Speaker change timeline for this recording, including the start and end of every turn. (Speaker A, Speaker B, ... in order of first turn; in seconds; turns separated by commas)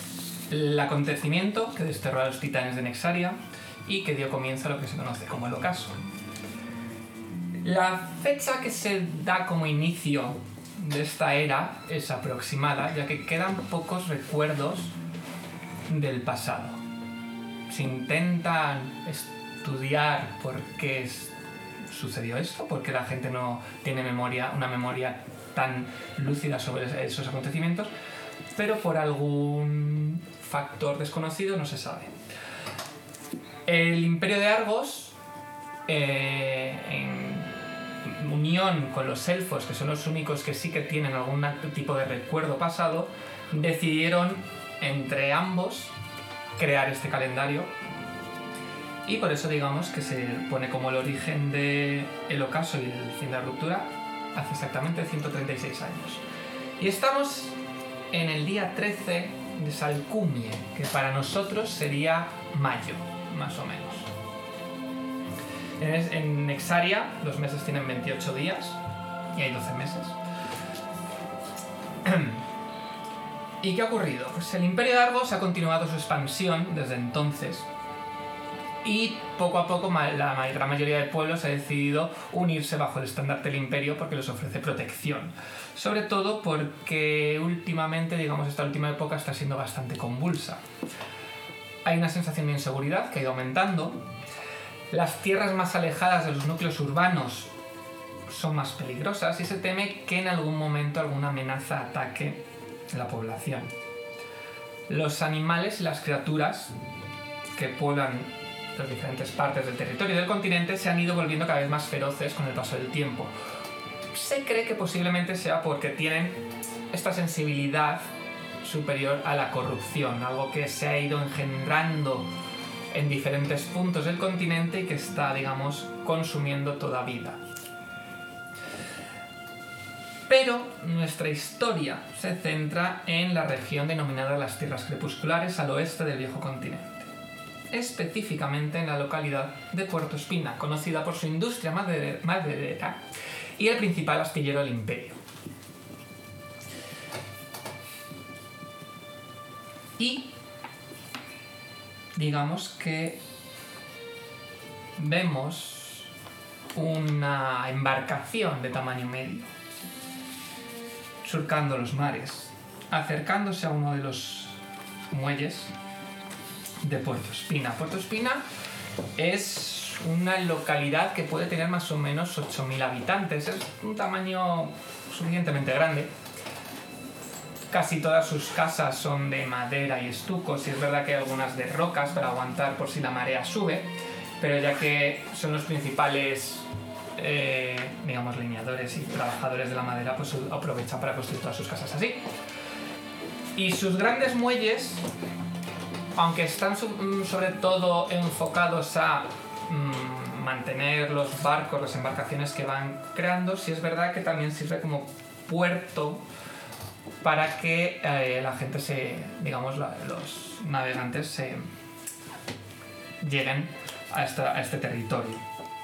Speaker A: 0.5-6.0, Speaker A: 7.6-14.9, Speaker A: 15.9-16.8, Speaker A: 17.7-21.3, Speaker A: 21.9-27.9, Speaker A: 28.5-32.2, Speaker A: 33.7-35.2, Speaker A: 35.9-37.5, Speaker A: 38.0-45.9, Speaker A: 46.6-47.7, Speaker A: 49.0-56.2, Speaker A: 56.8-57.6, Speaker A: 58.1-64.1, Speaker A: 65.8-68.8, Speaker A: 69.3-70.2, Speaker A: 72.0-72.5, Speaker A: 73.6-77.7, Speaker A: 78.8-90.6, Speaker A: 91.8-94.1, Speaker A: 94.9-97.5, Speaker A: 98.3-103.7, Speaker A: 104.9-106.7, Speaker A: 107.5-113.3, Speaker A: 114.1-118.1, Speaker A: 118.6-122.3, Speaker A: 122.9-127.4, Speaker A: 130.3-137.1, Speaker A: 137.7-143.0, Speaker A: 143.6-145.2, Speaker A: 150.0-150.3, Speaker A: 152.1-153.2, Speaker A: 155.0-156.1, Speaker A: 156.7-159.5, Speaker A: 161.2-165.7, Speaker A: 166.8-168.4, Speaker A: 169.2-176.1, Speaker A: 177.7-192.3, Speaker A: 193.6-195.1, Speaker A: 196.1-206.2, Speaker A: 207.2-211.7, Speaker A: 213.2-215.4